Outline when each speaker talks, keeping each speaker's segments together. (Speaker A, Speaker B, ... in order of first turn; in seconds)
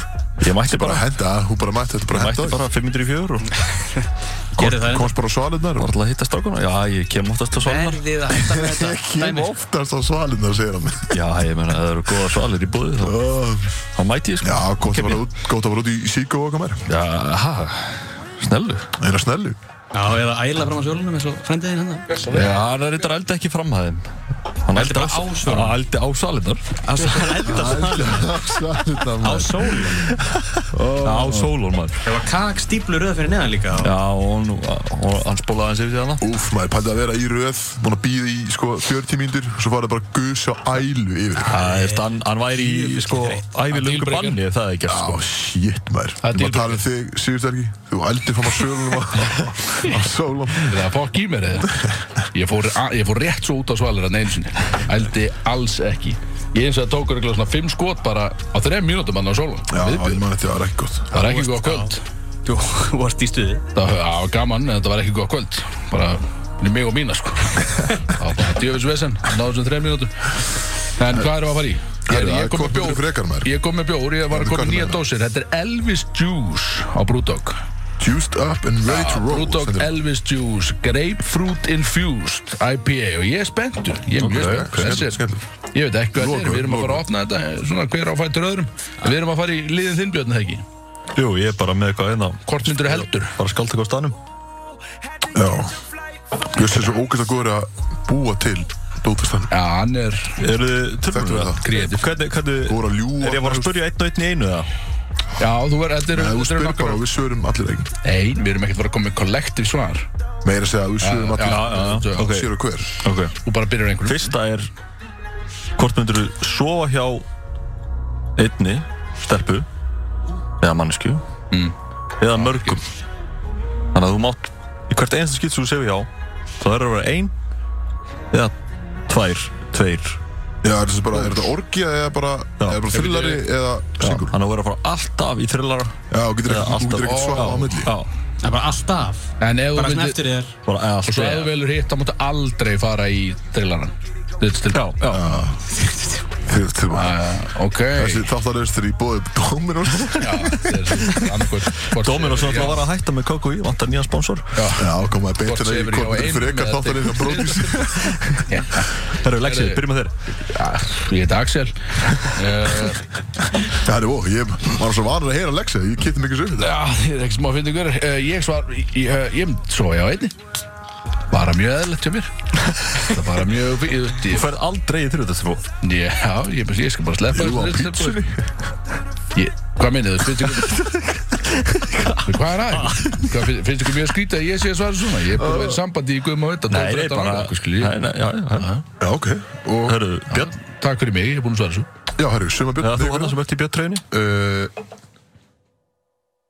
Speaker A: 0.4-1.1, 2.1-3.5, 5.8-8.0, 11.1-13.2, 13.9-15.2, 16.9-18.9, 22.3-27.8, 30.8-32.0, 33.8-36.2, 41.5-45.2, 84.3-85.0, 91.1-94.2, 100.4-104.7, 111.4-113.3, 114.0-114.7, 115.8-117.2, 118.4-119.7, 120.6-121.2, 122.2-122.8, 123.9-127.3, 129.1-130.2, 131.1-131.5, 132.6-133.4, 134.0-138.1, 140.7-141.5, 144.7-145.3, 151.9-154.7, 159.1-160.1, 174.2-175.6, 181.7-182.1, 186.7-188.7, 189.8-190.5, 192.8-194.0
Speaker B: 0.6-2.6, 4.6-5.9, 8.3-11.2, 13.0-13.7, 14.4-16.9, 19.0-19.6, 27.4-30.1, 30.8-31.5, 36.2-41.6, 44.9-50.8, 59.7-61.3, 72.0-73.5, 74.3-75.0, 78.0-80.0, 84.2-85.4, 86.1-87.0, 95.3-95.7, 96.5-99.5, 101.1-101.8, 102.6-103.8, 106.1-107.9, 110.4-113.0, 130.6-134.3, 136.1-137.9, 145.1-145.7, 146.4-147.2, 147.9-151.2, 154.8-158.4, 163.6-166.7, 177.3-178.5, 185.3-185.8, 189.0-190.0, 192.2-193.4, 194.1-194.7
Speaker C: 3.5-5.1, 7.5-9.5, 19.9-22.2, 24.7-25.8, 26.8-28.4, 29.2-30.1, 32.0-33.9, 41.4-43.5, 61.1-61.9, 62.4-63.6, 138.4-140.6, 145.8-146.1
Speaker D: 22.1-22.5, 43.7-44.4, 46.2-46.8, 50.6-60.2, 61.1-62.0, 63.7-77.6, 78.8-90.6, 92.5-93.4, 99.5-100.4, 101.6-102.1, 105.4-107.0, 108.0-110.1, 111.0-112.3, 113.4-114.3, 122.3-122.8, 137.0-137.6, 139.4-140.2, 141.0-144.9, 146.9-148.3, 150.2-152.8, 154.5-163.1, 166.6-170.4, 171.3-172.3, 172.9-174.5, 175.8-178.2, 179.3-180.9, 182.2-188.0, 188.6-188.8, 190.3-191.9